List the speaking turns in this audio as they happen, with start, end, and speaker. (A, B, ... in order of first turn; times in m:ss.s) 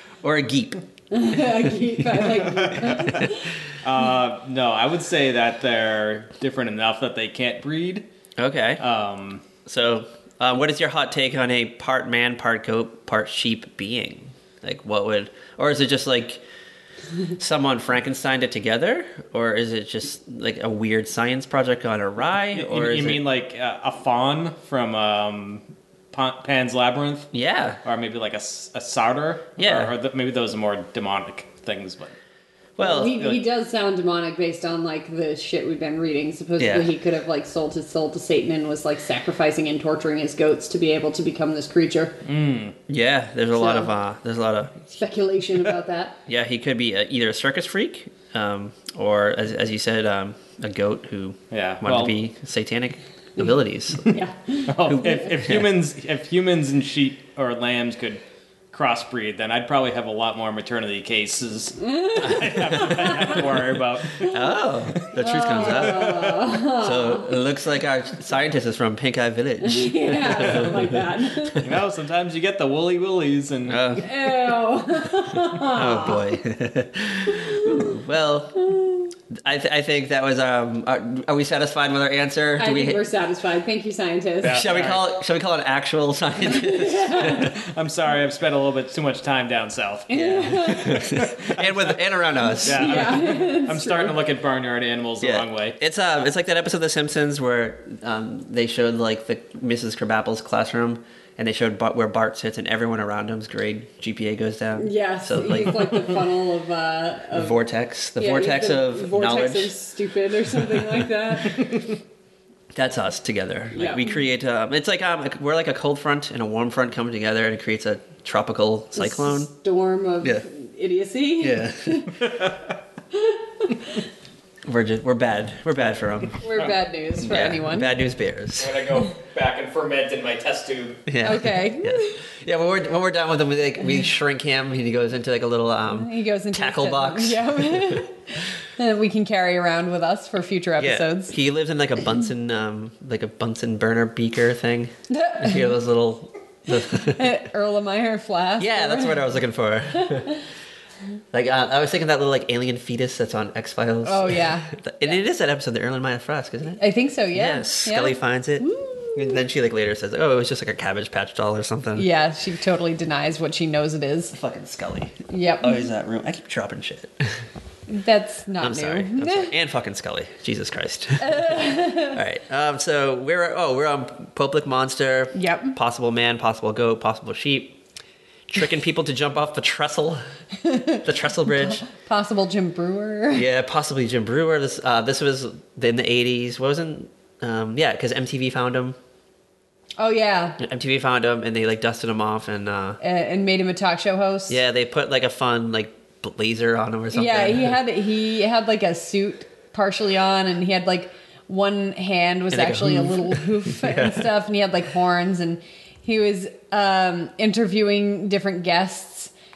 0:00.2-0:01.6 A
0:01.1-0:03.5 B
0:02.5-0:08.1 C
0:08.4-0:08.8 A
0:08.8-0:09.4 C
0:09.7-0:16.4 A
0:17.4-0:23.2 A
0:22.5-0:27.3 C
0:27.3-0:27.8 A
0:27.8-0:32.1 C
0:29.6-0:29.9 A
0:32.8-0:33.2 A
0:32.8-0:42.2 B
0:36.6-0:36.9 A
0:42.2-0:42.8 C
0:42.9-0:44.8 A
0:43.6-0:43.9 B
0:44.9-0:46.2 B
0:46.3-0:54.1 A
0:51.5-0:52.2 C
0:54.1-0:55.3 B
0:54.7-1:04.3 C
0:54.9-0:55.6 A
1:01.8-1:03.4 B
1:02.3-1:03.4 A
1:04.2-1:11.8 A
1:05.2-1:07.3 B
1:05.5-1:06.4 C
1:09.6-1:11.6 B
1:11.6-1:14.0 C
1:13.7-1:14.1 A
1:14.0-1:16.3 B
1:15.7-1:18.7 A
1:17.3-1:18.0 B
1:18.6-1:19.1 B
1:19.3-1:23.0 A
1:22.6-1:24.7 B
1:24.4-1:25.0 C
1:24.5-1:27.6 A
1:26.4-1:27.6 B
1:27.3-1:32.0 C
1:30.1-1:31.2 B
1:30.1-1:33.2 A
1:32.5-1:34.2 B
1:32.6-1:35.8 C
1:35.2-1:46.3 A
1:44.8-1:47.6 B
1:47.3-1:49.7 A
1:48.2-1:51.8 B
1:52.7-1:59.5 A
1:53.7-1:54.1 B
1:59.0-2:02.2 B
2:01.4-2:02.1 A
2:02.2-2:02.6 C
2:03.1-2:04.0 B
2:04.6-2:06.4 A
2:06.4-2:07.9 B
2:07.2-2:08.8 A
2:08.6-2:11.1 C
2:11.1-2:18.0 A
2:11.2-2:12.2 B
2:15.9-2:21.3 B
2:20.8-2:27.3 A
2:25.1-2:25.8 B
2:26.8-2:29.2 B
2:28.6-2:30.3 A
2:30.0-2:30.4 B
2:31.3-2:36.8 A
2:34.0-2:34.7 B
2:36.8-2:39.4 B
2:37.3-2:42.1 A
2:42.0-2:44.4 B
2:44.3-2:47.3 A
2:45.3-2:45.9 B
2:47.9-2:49.5 B
2:48.6-2:57.8 A
2:51.2-2:52.2 B
2:55.3-2:55.8 B
2:58.5-3:00.2 A
3:00.6-3:03.5 B
3:01.0-3:01.8 A
3:03.3-3:09.0 A
3:10.0-3:10.6 B
3:10.6-3:13.0 A
3:13.0-3:14.6 B
3:14.5-3:17.8 A
3:17.1-3:29.3 B
3:22.5-3:24.3 A